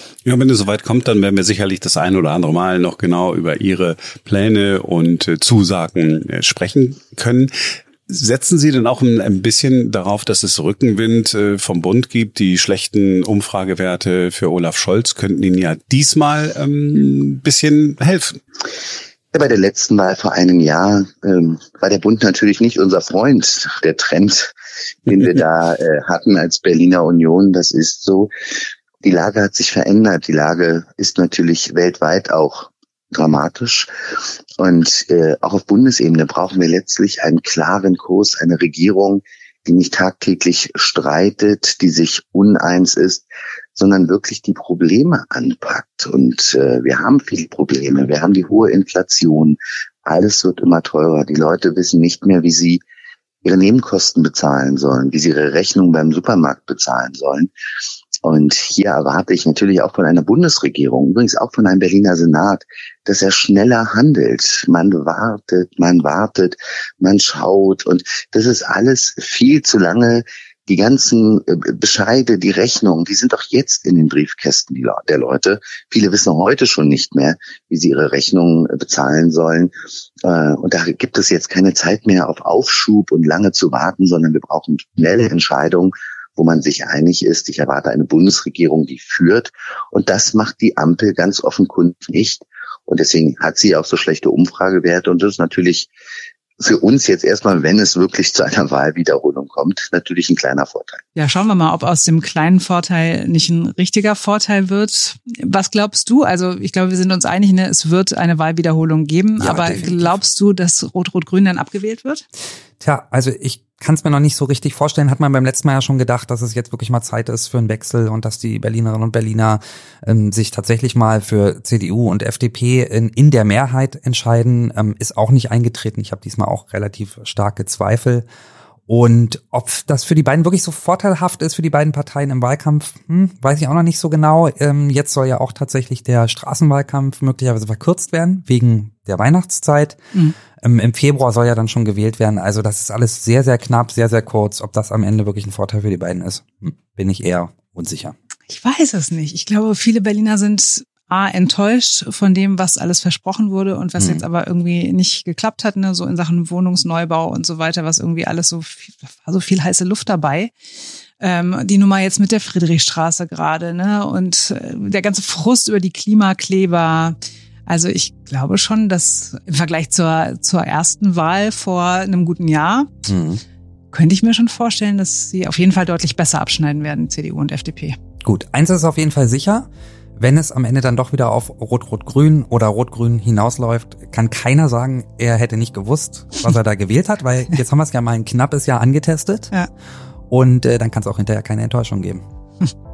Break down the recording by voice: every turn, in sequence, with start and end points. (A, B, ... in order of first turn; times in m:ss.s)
0:00.2-0:18.4 A
0:19.3-0:24.5 B
0:25.1-0:28.3 B
0:29.0-0:33.9 B
0:34.6-0:52.8 B
0:53.4-0:57.5 B
0:58.2-1:19.7 B
1:20.2-1:35.9 B
1:36.6-1:41.0 B
1:41.1-1:52.2 C
1:49.4-1:50.2 D
1:52.8-2:08.2 D
2:08.9-2:20.0 D
2:20.6-2:28.1 D
2:28.5-2:40.5 C
2:34.0-2:34.2 D
2:41.2-2:53.0 C
2:53.0-2:53.4 D
2:53.9-2:58.0 C
2:58.2-3:09.5 D
3:10.3-3:12.2 D